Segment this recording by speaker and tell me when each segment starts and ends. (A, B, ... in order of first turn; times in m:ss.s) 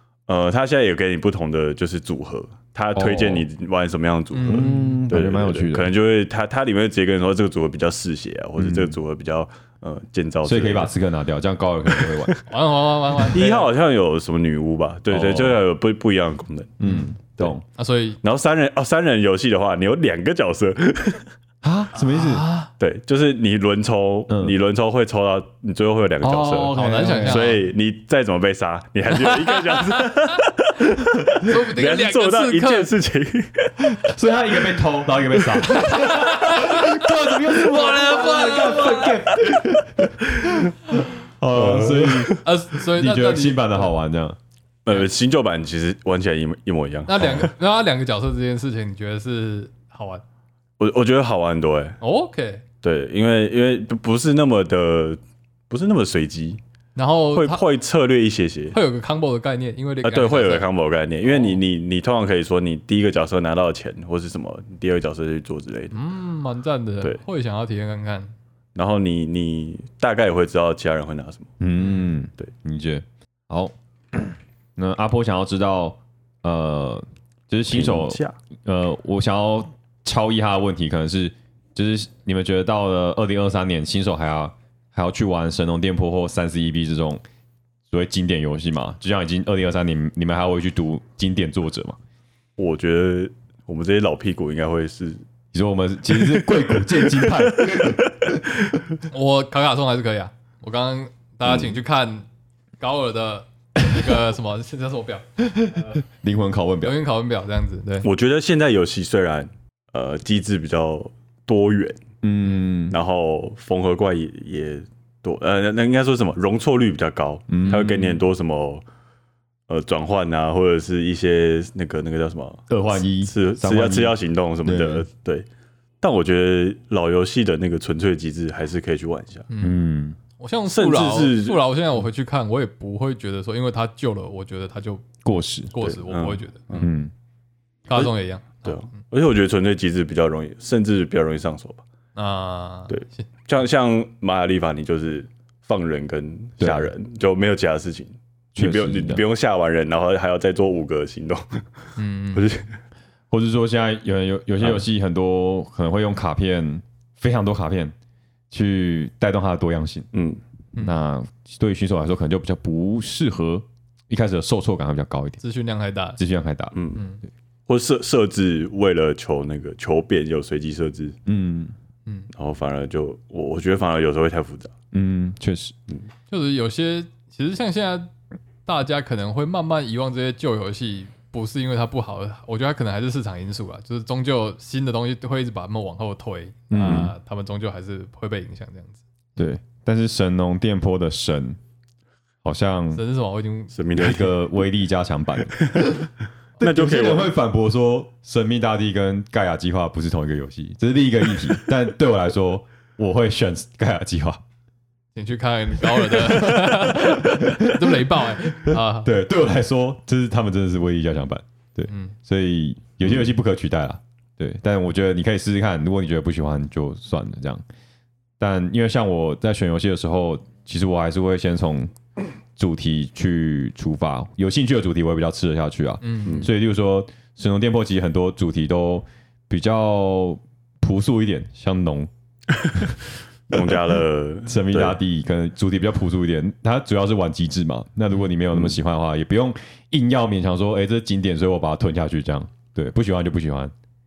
0:00.3-0:10.9 A
0:02.9-0:03.5 B
0:04.3-0:05.0 C
0:04.5-0:05.9 B
0:08.6-0:09.0 B
0:10.4-0:12.4 B
0:11.9-0:12.4 A
0:12.4-0:13.7 C
0:13.3-0:16.8 A
0:15.1-0:15.6 B
0:16.8-0:17.6 B
0:17.8-0:18.2 C
0:18.2-0:21.2 A
0:21.6-0:22.5 B
0:22.0-0:22.7 C
0:22.8-0:34.0 A
0:24.3-0:24.5 B
0:26.2-0:27.5 B
0:26.7-0:27.6 C
0:29.1-0:30.4 C
0:31.4-0:32.9 C
0:33.9-0:44.4 B
0:35.3-0:35.8 A
0:35.7-0:39.1 C
0:38.8-0:39.2 A
0:40.3-0:40.7 A
0:41.5-0:42.4 A
0:42.4-0:43.9 C
0:44.8-0:47.5 A
0:47.0-0:50.2 C
0:50.8-0:52.0 A
0:52.0-0:52.6 C
0:52.8-0:56.6 A
0:57.0-0:57.6 C
0:57.3-0:58.8 A
0:58.7-1:00.6 C
1:00.0-1:06.0 A
1:01.3-1:01.6 C
1:05.9-1:08.3 C
1:08.8-1:11.5 A
1:11.6-1:27.2 B
1:11.8-1:12.1 C
1:17.7-1:18.3 A
1:27.9-1:32.0 B
1:32.6-1:35.2 A
1:35.5-1:38.4 B
1:36.2-1:38.0 A
1:39.1-1:42.3 C
1:42.8-1:46.0 C
1:45.4-1:47.0 B
1:46.8-1:48.1 C
1:48.0-1:52.0 A
1:52.2-1:53.0 B
1:52.9-1:58.8 A
1:57.5-1:58.2 B
1:59.7-2:05.4 A
2:02.7-2:05.0 B
2:06.0-2:09.5 A
2:09.5-2:09.8 C
2:09.6-2:10.2 B
2:10.4-2:15.0 C
2:10.7-2:11.6 A
2:15.2-2:15.7 B
2:15.7-2:16.6 C
2:15.8-2:16.9 A
2:16.8-2:17.1 B
2:17.9-2:19.0 C
2:18.6-2:21.8 A
2:22.2-2:23.3 C
2:22.9-2:31.6 A
2:26.6-2:26.9 B
2:28.5-2:29.2 B
2:32.0-2:32.4 C
2:32.3-2:32.8 A
2:33.3-2:37.9 B
2:38.5-2:40.1 B
2:40.1-2:40.4 A
2:40.8-2:45.4 B
2:45.4-2:46.2 C
2:46.2-2:46.8 B
2:46.7-2:47.0 A
2:47.7-2:51.2 A
2:51.2-2:51.7 B
2:52.3-2:54.7 A
2:54.9-2:55.7 B
2:56.3-2:58.1 C
2:58.6-3:09.0 C
3:06.7-3:07.1 B
3:09.4-3:11.6 B
3:12.4-3:13.0 B
3:12.9-3:13.7 C
3:13.7-3:14.4 A
3:13.9-3:16.1 B
3:15.5-3:15.9 A
3:16.6-3:24.4 B
3:16.6-3:17.3 A
3:25.1-3:29.1 C
3:26.1-3:37.6 B
3:31.9-3:32.1 C
3:38.4-3:41.9 B
3:42.6-3:52.1 B
3:46.0-3:46.5 C
3:53.5-3:55.0 A
3:54.4-4:03.7 B